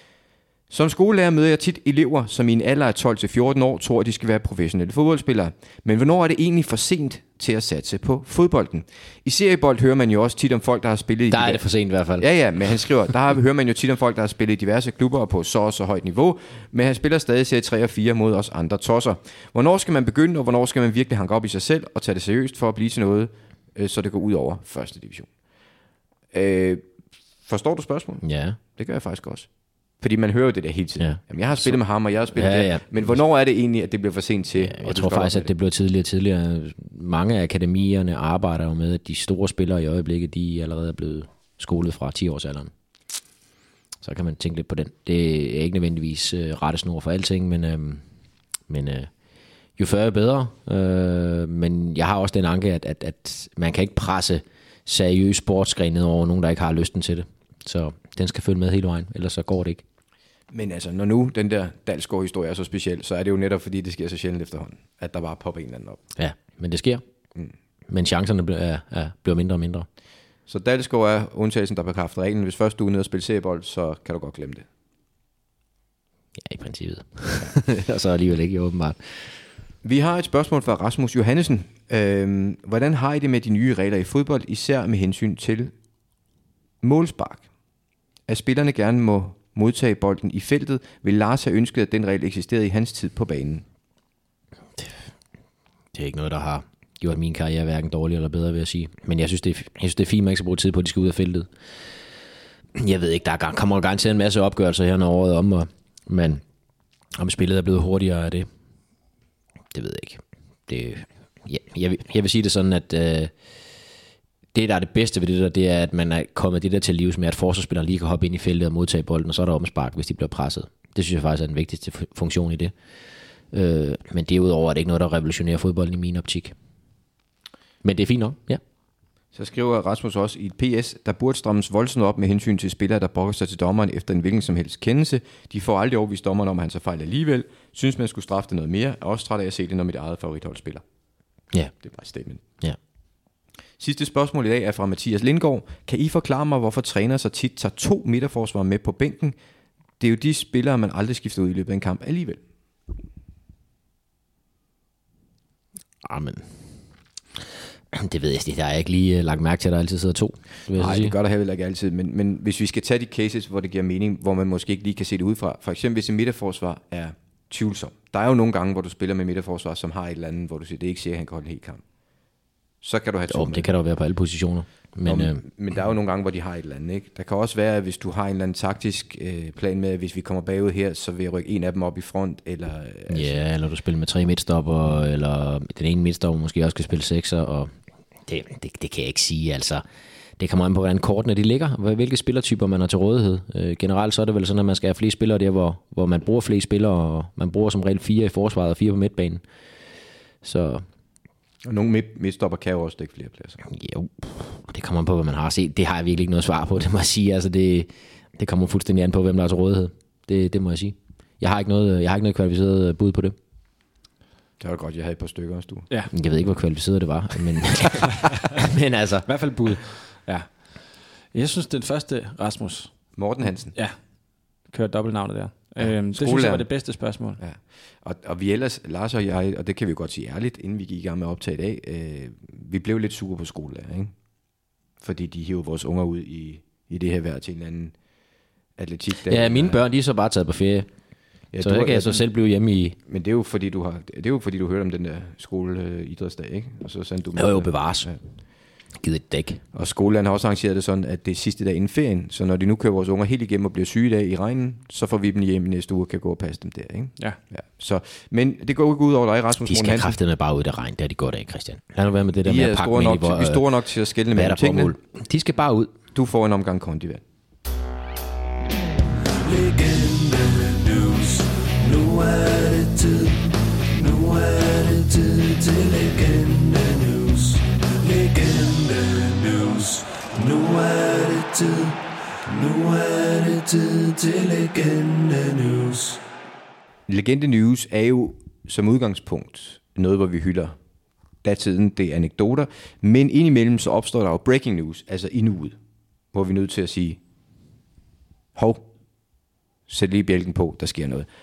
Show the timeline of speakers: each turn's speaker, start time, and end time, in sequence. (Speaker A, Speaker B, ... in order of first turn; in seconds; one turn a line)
Speaker A: 0.7-11.6
Speaker B: 11.3-12.2
Speaker A: 12.2-25.3
Speaker A: 26.3-26.9
Speaker A: 27.4-35.5
Speaker B: 28.2-28.6
Speaker B: 31.0-31.8
Speaker B: 32.3-32.9
Speaker B: 34.6-42.7
Speaker B: 44.0-48.0
Speaker B: 48.7-49.1
Speaker B: 49.8-59.8
Speaker A: 60.5-66.0
Speaker B: 66.2-67.0
Speaker B: 67.9-69.9
Speaker A: 70.5-74.7
Speaker B: 76.4-79.3
Speaker A: 79.8-85.7
Speaker A: 86.8-87.4
Speaker A: 88.3-93.6
Speaker B: 95.9-101.5
Speaker B: 102.8-106.4
Speaker B: 107.2-108.5
Speaker B: 109.7-113.3
Speaker B: 114.5-122.7
Speaker B: 123.5-126.5
Speaker B: 127.8-128.6
Speaker A: 129.3-140.8
Speaker A: 141.8-142.4
Speaker A: 143.8-149.3
Speaker A: 150.0-152.4
Speaker B: 156.0-156.4
Speaker B: 157.9-161.1
Speaker A: 160.7-171.8
Speaker A: 172.8-173.7
Speaker B: 173.3-175.4
Speaker A: 175.1-183.4
Speaker B: 183.1-187.7
Speaker B: 188.3-189.8
Speaker B: 190.4-199.4
Speaker B: 200.4-200.8
Speaker A: 201.6-203.6
Speaker B: 203.7-213.3
Speaker A: 214.6-215.9
Speaker B: 216.1-219.3
Speaker C: 219.3-220.5
Speaker C: 221.3-222.9
Speaker A: 223.2-223.8
Speaker C: 224.7-227.4
Speaker A: 225.8-226.7
Speaker A: 227.4-234.1
Speaker A: 235.0-237.9
Speaker A: 238.8-239.8
Speaker B: 239.3-240.9
Speaker A: 241.5-242.2
Speaker B: 241.6-242.9
Speaker A: 243.1-248.2
Speaker B: 247.4-248.1
Speaker B: 249.0-249.6
Speaker A: 249.7-260.2
Speaker B: 259.6-263.6
Speaker A: 262.4-264.9
Speaker B: 264.3-265.9
Speaker A: 266.1-267.2
Speaker D: 269.4-286.2
Speaker A: 287.1-290.7
Speaker A: 291.4-295.8
Speaker A: 296.3-297.2
Speaker A: 298.5-298.9
Speaker A: 299.9-301.3